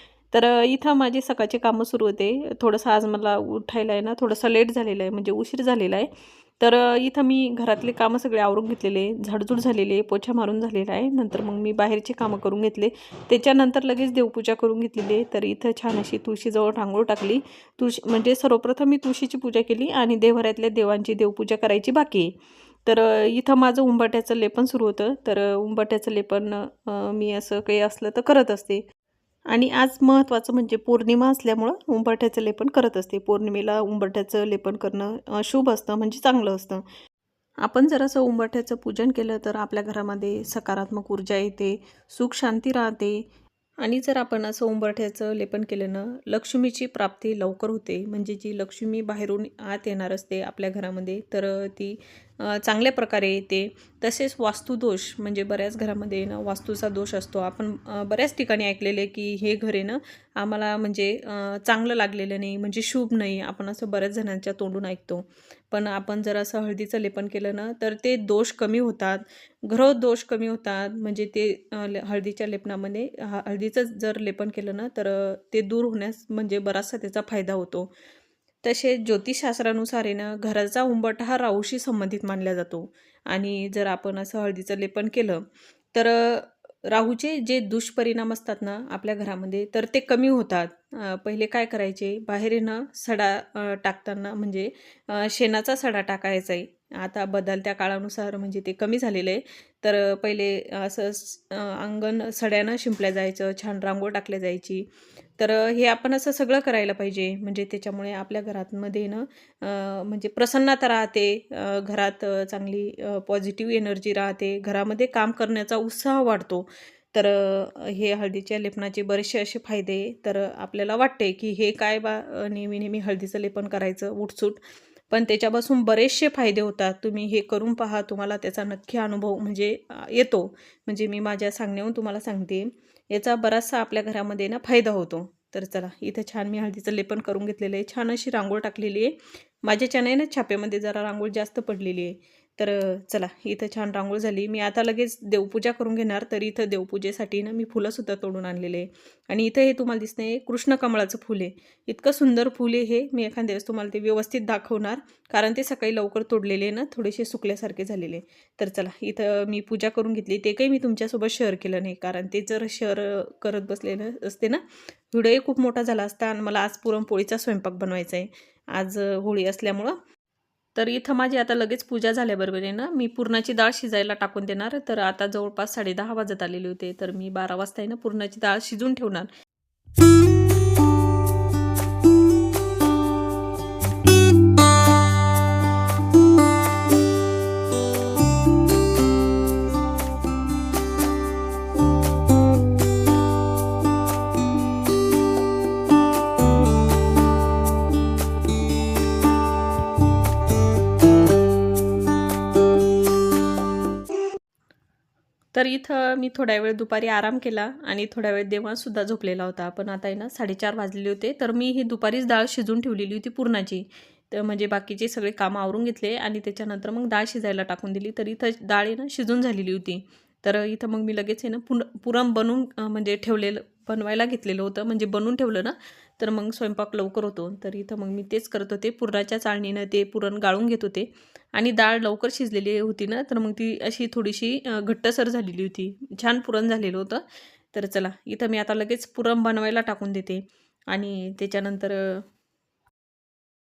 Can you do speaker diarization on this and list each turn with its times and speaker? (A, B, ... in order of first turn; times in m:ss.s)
0:00.3-0:22.3 A
0:22.8-0:28.8 A
0:29.5-0:36.9 A
0:37.6-0:43.2 A
0:43.8-1:17.9 A
1:18.6-1:44.9 A
1:45.4-2:50.0 A
2:50.8-2:59.3 A
3:25.5-4:02.2 A